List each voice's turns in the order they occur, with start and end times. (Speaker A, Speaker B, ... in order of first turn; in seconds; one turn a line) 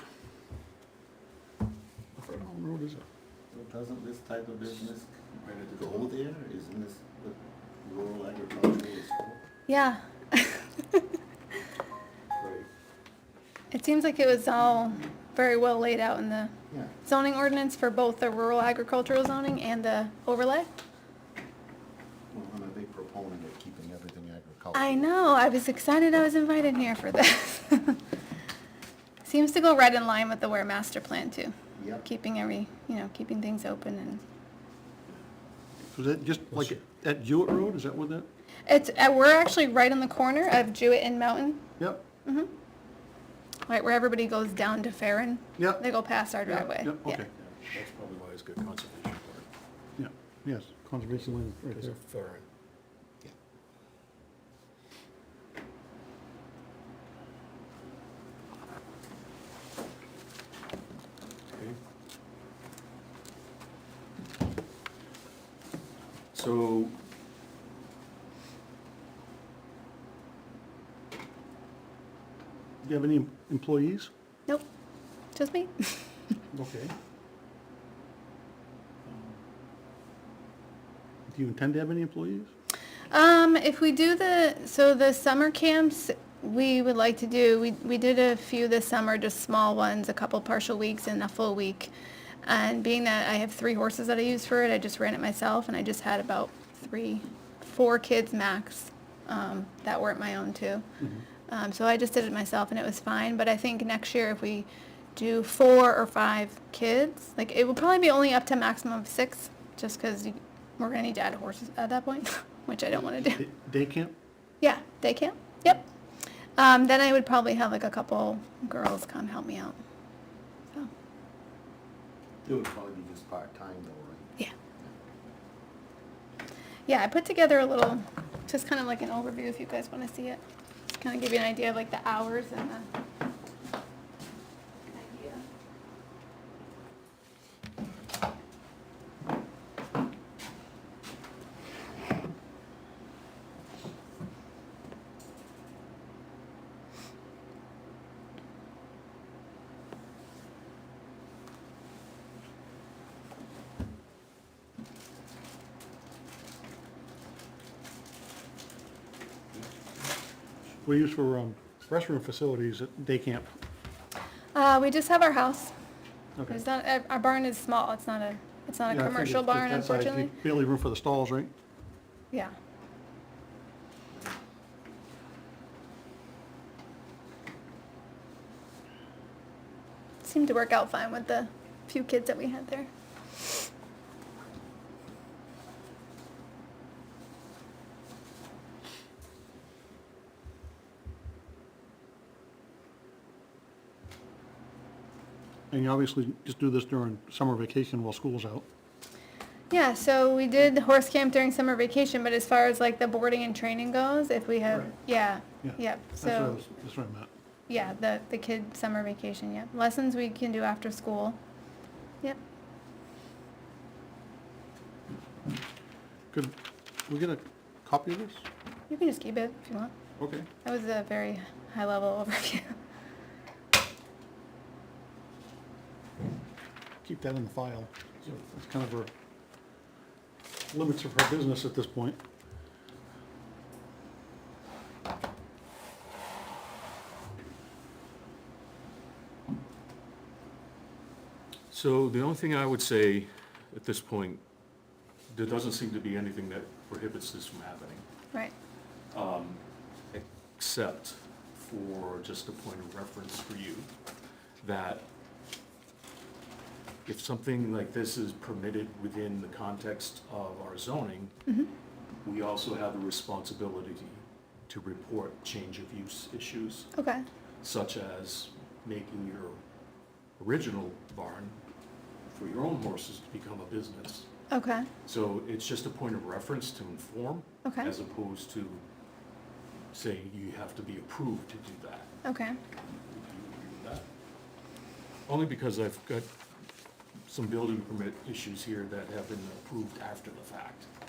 Speaker A: 2.2-3.0
Speaker B: 3.5-5.1
Speaker C: 5.3-6.1
Speaker B: 5.7-9.4
Speaker D: 9.7-11.1
Speaker C: 12.4-12.7
Speaker D: 13.7-20.7
Speaker B: 22.3-25.1
Speaker D: 24.7-28.0
Speaker D: 29.2-34.2
Speaker B: 31.8-32.0
Speaker A: 35.9-38.3
Speaker D: 38.7-41.6
Speaker A: 41.8-42.0
Speaker D: 42.2-42.5
Speaker D: 43.7-47.2
Speaker A: 45.6-45.8
Speaker A: 46.4-47.3
Speaker C: 47.4-49.5
Speaker A: 50.0-52.0
Speaker C: 51.7-52.5
Speaker C: 61.5-61.8
Speaker C: 66.3-67.0
Speaker A: 72.8-74.1
Speaker D: 75.3-76.1
Speaker A: 76.5-76.9
Speaker A: 79.0-79.4
Speaker A: 81.3-82.5
Speaker D: 83.1-91.9
Speaker D: 92.4-100.8
Speaker D: 101.5-113.4
Speaker A: 112.9-114.2
Speaker D: 114.6-115.9
Speaker D: 116.6-119.8
Speaker B: 122.4-124.2
Speaker D: 126.9-132.9
Speaker D: 134.9-135.4
Speaker A: 160.8-163.5
Speaker D: 164.5-165.7
Speaker D: 166.5-170.3
Speaker A: 168.9-171.5
Speaker D: 180.2-182.9
Speaker A: 195.7-198.7
Speaker D: 199.7-206.6
Speaker A: 205.6-207.3
Speaker D: 207.7-211.4
Speaker A: 216.3-218.4
Speaker D: 218.9-219.9
Speaker A: 220.2-220.5
Speaker D: 220.6-222.7
Speaker A: 227.0-229.1
Speaker A: 230.7-232.2
Speaker C: 241.7-244.4
Speaker C: 245.3-248.0
Speaker C: 249.1-249.6
Speaker C: 250.1-253.9
Speaker C: 254.6-255.1
Speaker C: 257.0-261.3
Speaker C: 262.2-266.9
Speaker D: 266.9-267.2
Speaker C: 267.6-269.6
Speaker C: 270.4-271.6
Speaker C: 272.3-274.3
Speaker D: 274.5-274.9
Speaker C: 275.0-278.8
Speaker D: 277.6-277.9
Speaker C: 279.9-282.1
Speaker D: 282.2-282.6
Speaker C: 283.1-284.1
Speaker C: 285.3-286.3
Speaker C: 287.2-290.9